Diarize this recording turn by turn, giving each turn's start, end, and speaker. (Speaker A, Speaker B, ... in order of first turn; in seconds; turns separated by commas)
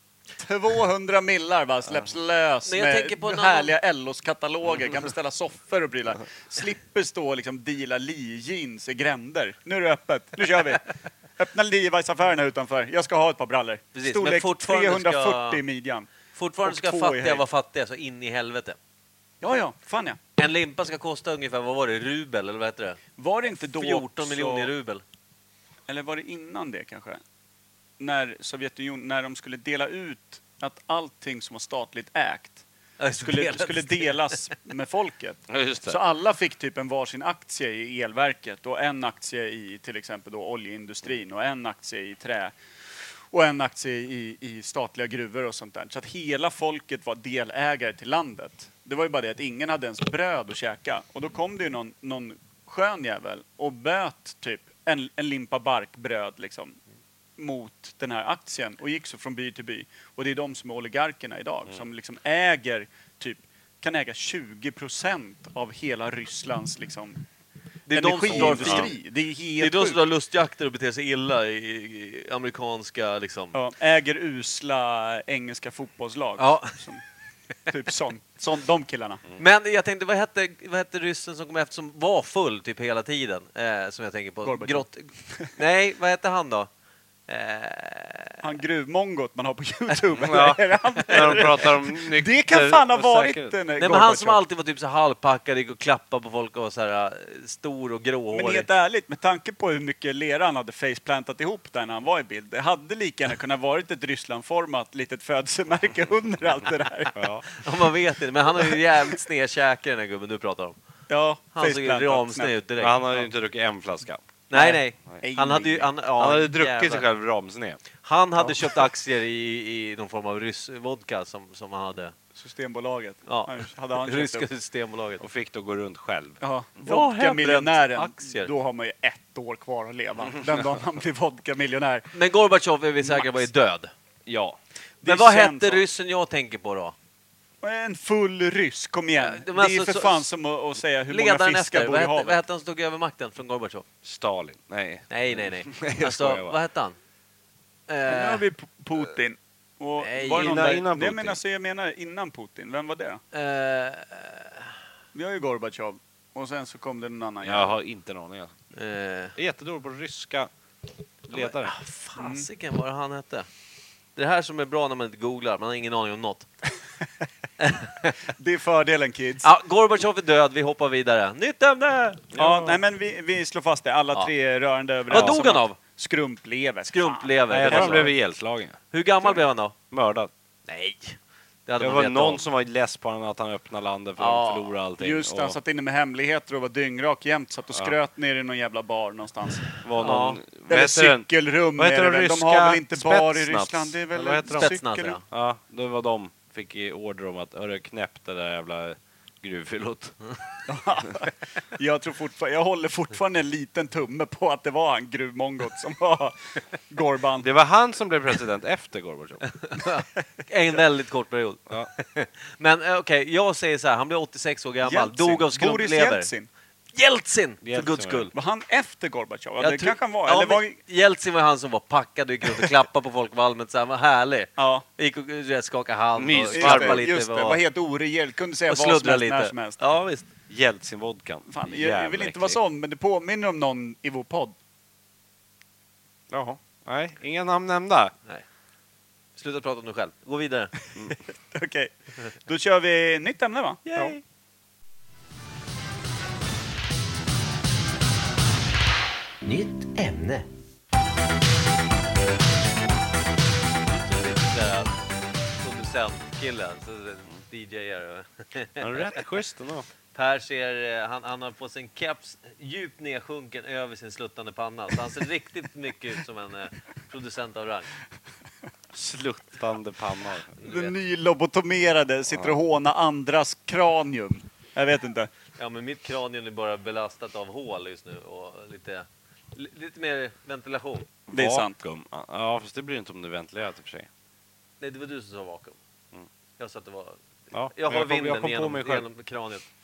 Speaker A: 0.4-16.1, Speaker B: 2.7-3.7, Speaker B: 13.9-15.6, Speaker B: 16.4-18.8, Speaker A: 16.6-17.4, Speaker A: 19.4-20.2, Speaker B: 20.4-23.0, Speaker A: 23.2-24.7, Speaker B: 23.5-25.0, Speaker A: 25.9-27.2, Speaker A: 28.0-32.6, Speaker B: 33.0-34.2, Speaker A: 33.2-42.6, Speaker C: 35.5-36.0, Speaker A: 43.3-56.8, Speaker A: 57.4-67.2, Speaker B: 67.9-69.0, Speaker A: 67.9-70.0, Speaker C: 68.3-68.9, Speaker B: 69.6-73.5, Speaker A: 73.5-77.0, Speaker B: 76.4-76.7, Speaker A: 77.7-79.2, Speaker B: 79.4-86.7, Speaker A: 84.4-85.5, Speaker B: 87.3-88.4, Speaker A: 88.4-94.4, Speaker C: 90.2-93.6, Speaker B: 91.0-91.7, Speaker B: 93.8-98.7, Speaker A: 98.3-107.3, Speaker C: 107.2-107.5, Speaker B: 107.5-110.8, Speaker A: 111.1-112.6, Speaker B: 111.5-113.0, Speaker C: 112.8-114.2, Speaker B: 114.5-117.1, Speaker A: 114.5-115.9, Speaker C: 116.2-117.8, Speaker B: 118.0-122.2, Speaker A: 118.4-118.9, Speaker A: 122.3-124.5, Speaker B: 123.3-125.2, Speaker C: 125.2-126.4, Speaker A: 126.4-132.1, Speaker B: 126.8-128.5, Speaker B: 132.1-133.9, Speaker A: 133.0-133.5, Speaker C: 134.3-134.6, Speaker A: 135.0-135.8, Speaker B: 135.1-136.9, Speaker A: 137.6-142.4, Speaker B: 139.2-140.3, Speaker B: 141.1-143.8, Speaker C: 144.0-146.6, Speaker B: 145.1-147.0, Speaker B: 147.9-148.4, Speaker A: 148.1-153.2, Speaker B: 150.0-150.7, Speaker C: 150.3-151.4, Speaker B: 153.3-154.6, Speaker A: 155.1-157.7, Speaker C: 157.4-158.6, Speaker B: 158.7-159.3, Speaker C: 159.4-160.5, Speaker C: 161.3-161.8, Speaker B: 161.3-163.5, Speaker A: 162.2-162.5, Speaker B: 164.2-166.5, Speaker B: 167.6-168.1, Speaker A: 168.4-169.5, Speaker B: 169.4-172.3, Speaker C: 172.3-172.8, Speaker A: 172.4-178.1, Speaker B: 175.1-175.8, Speaker C: 175.1-175.4, Speaker B: 176.8-178.2, Speaker C: 177.5-178.8, Speaker B: 178.9-179.8, Speaker C: 179.9-180.3, Speaker B: 180.7-182.4, Speaker C: 181.8-185.6, Speaker B: 184.2-184.8, Speaker A: 185.0-189.7, Speaker C: 189.8-194.8, Speaker B: 190.0-190.4, Speaker A: 190.7-195.2, Speaker B: 194.5-195.2, Speaker C: 195.3-200.2, Speaker A: 200.7-207.5, Speaker C: 207.4-209.4, Speaker B: 209.7-216.3, Speaker A: 214.8-216.5, Speaker B: 216.9-218.3, Speaker C: 217.6-218.3, Speaker A: 218.3-220.7, Speaker B: 219.6-227.6, Speaker A: 224.6-224.8, Speaker C: 226.2-227.1, Speaker A: 226.5-229.8, Speaker B: 228.7-230.3, Speaker C: 230.5-232.6, Speaker A: 231.5-234.6, Speaker C: 236.3-238.1, Speaker B: 239.4-240.7, Speaker A: 241.1-243.8, Speaker B: 243.9-244.2, Speaker B: 249.4-250.5, Speaker B: 253.8-255.0, Speaker B: 255.6-259.2, Speaker C: 258.8-259.9, Speaker B: 260.1-267.9, Speaker C: 268.9-270.6, Speaker B: 270.6-270.9, Speaker A: 270.6-275.3, Speaker C: 272.3-272.6, Speaker B: 275.6-281.1, Speaker C: 281.3-284.1, Speaker A: 281.3-281.8, Speaker B: 284.8-285.8, Speaker B: 286.6-287.2, Speaker C: 287.5-289.1, Speaker B: 287.7-289.7